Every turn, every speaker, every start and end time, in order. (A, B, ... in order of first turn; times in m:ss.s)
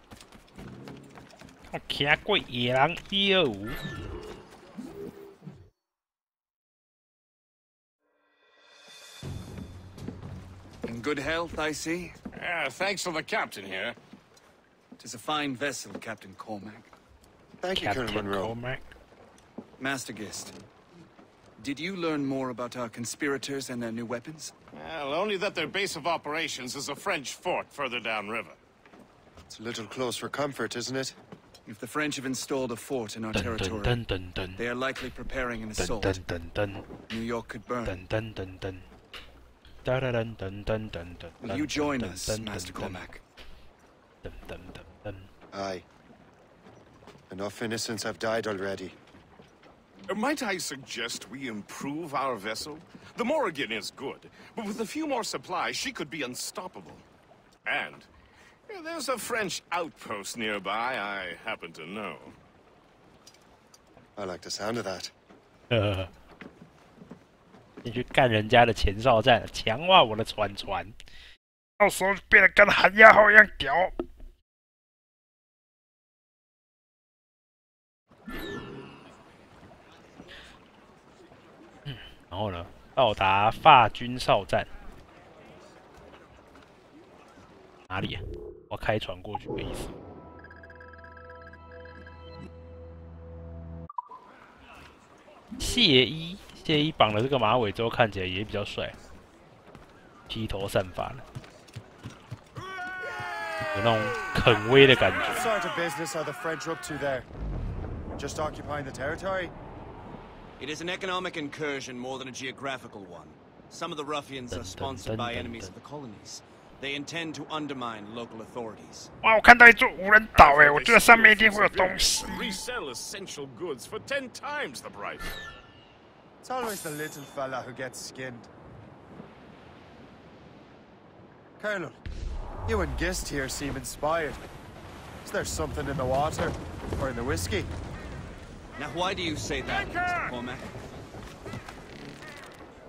0:01.7-0:03.8 A
0:10.8-0:12.1 B
0:12.4-0:14.0 C
0:15.0-0:16.9 B
0:17.6-0:18.5 D
0:17.8-0:18.8 A
0:19.8-0:20.5 B
0:21.6-0:24.5 B
0:24.7-0:28.6 C
0:29.4-0:31.2 D
0:31.6-0:34.0 B
0:33.3-0:34.6 A
0:34.6-0:36.2 B
0:35.8-0:36.8 A
0:37.1-0:38.0 B
0:37.8-0:38.9 A
0:39.8-0:43.0 A
0:41.4-0:43.2 B
0:44.2-0:45.3 A
0:45.5-0:45.8 D
0:47.3-0:49.0 D
0:50.1-0:57.0 C
0:57.6-0:58.1 C
0:58.7-1:02.4 C
1:04.2-1:05.1 D
1:05.7-1:06.1 A
1:07.8-1:10.9 A
1:11.8-1:13.9 A
1:21.9-1:24.7 A
1:27.9-1:29.9 A
1:35.6-1:39.0 A
1:40.3-1:41.2 A
1:43.7-1:45.5 A
1:45.2-1:47.3 D
1:48.1-1:49.5 D
1:50.6-1:59.1 E
1:54.5-1:55.7 A
1:59.2-2:02.6 A
2:00.3-2:05.4 C
2:06.4-2:08.5 D
2:11.6-2:12.0 D
2:12.6-2:14.4 D
2:15.2-2:17.7 D
2:18.8-2:20.6 E